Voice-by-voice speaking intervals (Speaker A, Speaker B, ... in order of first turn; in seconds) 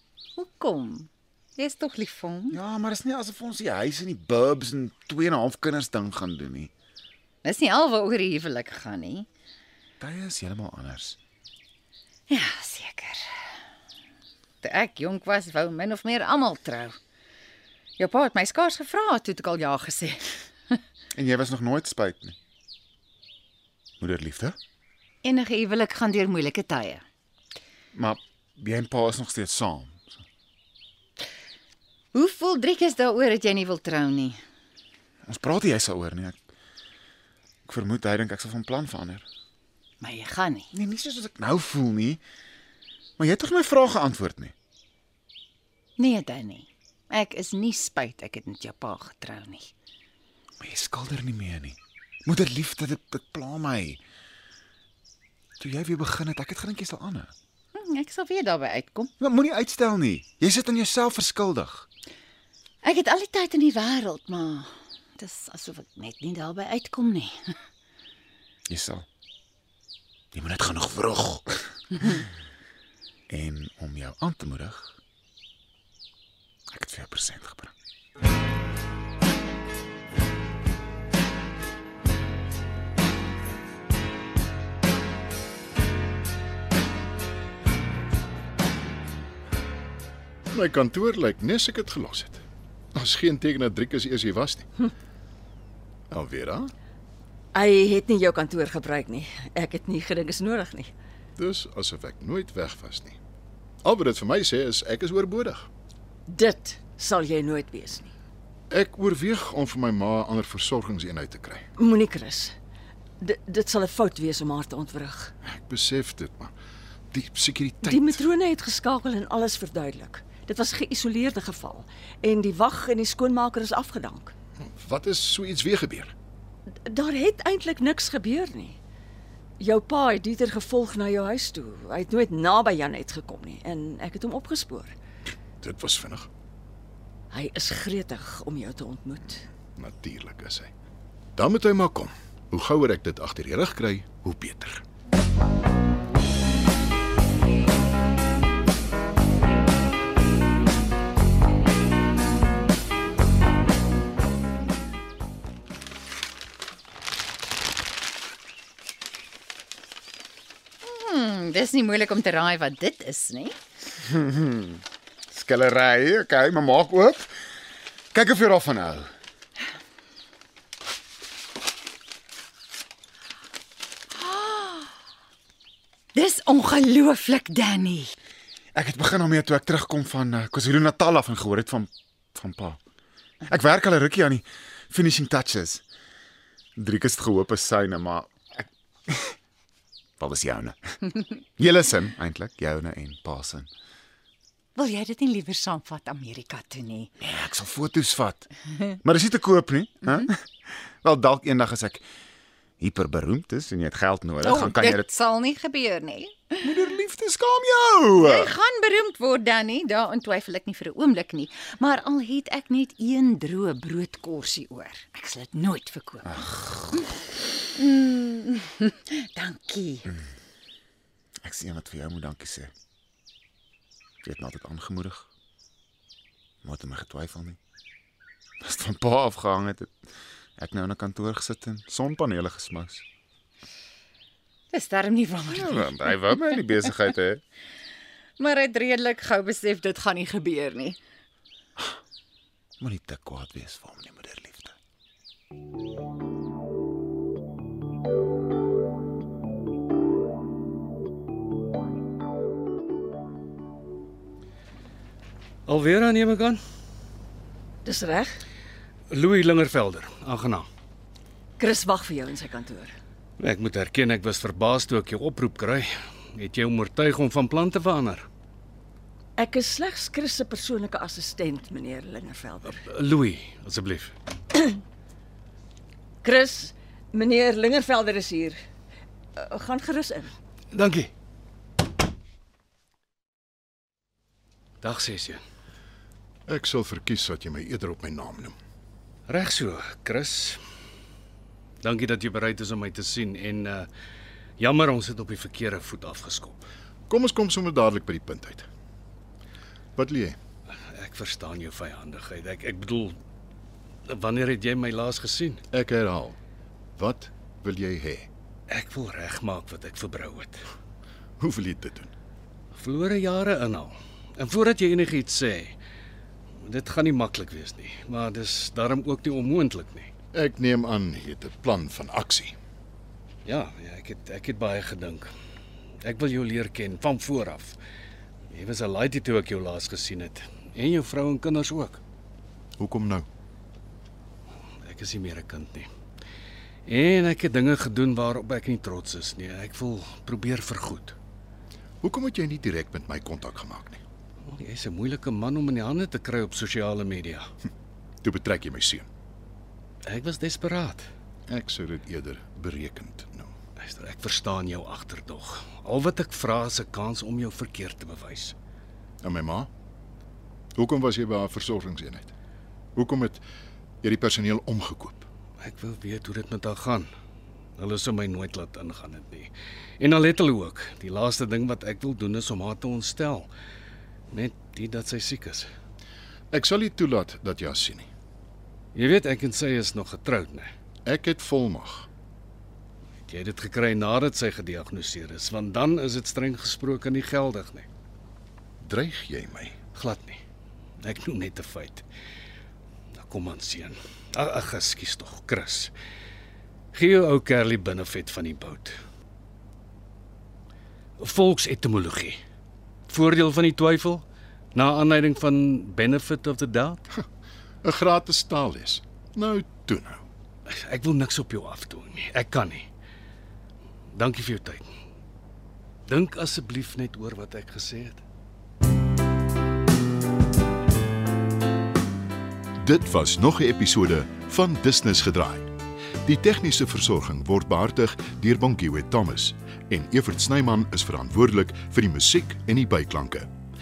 Speaker A: 0.4-2.6, 7.4-9.3, 12.3-13.3, 14.6-17.0, 18.0-20.8, 25.2-27.0, 32.1-34.4, 40.0-40.7, 46.0-49.7, 57.8-59.1, 62.8-67.3, 160.8-163.6, 174.2-174.9, 176.2-178.1, 194.8-197.1, 204.4-206.6, 208.2-217.1, 217.8-220.1, 234.7-236.1, 238.4-241.0
Speaker B: 2.5-6.7, 10.0-11.2, 21.1-22.4, 24.0-24.6, 27.9-30.2, 35.3-36.4, 37.7-39.2, 40.7-42.2, 43.2-44.5, 50.6-54.0, 55.6-57.3, 59.2-61.9, 68.7-69.1, 70.3-72.2, 73.3-75.0, 76.7-77.7, 164.0-167.4, 168.1-169.1, 178.8-182.8, 183.5-185.8, 186.8-189.3, 190.2-193.7, 197.2-202.0, 202.8-205.1, 206.6-208.5, 216.3-216.9, 221.4-222.7, 224.2-225.3, 226.6-227.6, 228.6-229.9, 230.6-233.0, 235.5-237.4, 242.8-244.7
Speaker C: 90.5-92.4, 93.0-94.9, 96.1-96.7, 101.4-103.2, 103.8-105.7, 108.7-111.7, 115.4-116.5, 117.1-118.2, 124.6-126.1, 135.6-136.3, 139.8-140.7, 141.4-144.8, 286.5-288.6, 297.1-298.7, 300.0-300.4, 305.7-306.4, 307.0-308.3, 311.4-312.1, 320.3-322.6, 332.8-333.3, 342.0-344.0, 348.2-349.1, 351.5-353.6, 359.2-359.7, 360.8-362.3, 363.0-363.4, 364.0-365.3, 376.5-378.1, 381.1-382.1, 388.8-389.8, 407.8-410.2, 422.8-425.7, 426.2-433.5
Speaker D: 97.5-100.9, 106.3-108.1, 111.8-112.5, 113.2-115.3, 117.8-124.3, 126.9-128.8, 129.6-134.9, 137.3-139.5, 257.8-258.4, 261.6-262.9, 269.4-272.8, 276.2-278.6, 279.4-280.3
Speaker E: 255.7-256.6, 259.1-260.7, 263.4-268.3, 272.7-274.1, 280.7-281.1, 284.8-285.4, 289.3-290.6, 291.8-293.9, 294.6-296.6, 300.7-303.2, 304.1-305.6, 308.7-310.6, 312.7-315.8, 316.6-320.1, 323.4-325.3, 326.0-327.8, 328.5-332.0, 334.8-335.9, 336.9-341.2, 344.5-347.5, 350.1-351.1, 353.8-358.6, 365.6-367.1, 367.8-373.5, 374.3-375.7, 378.9-380.7, 383.3-387.9, 389.9-390.4, 391.0-392.0, 393.1-395.9, 396.9-398.9, 401.2-402.4, 403.1-407.0, 410.7-412.9, 414.1-414.9, 416.1-418.2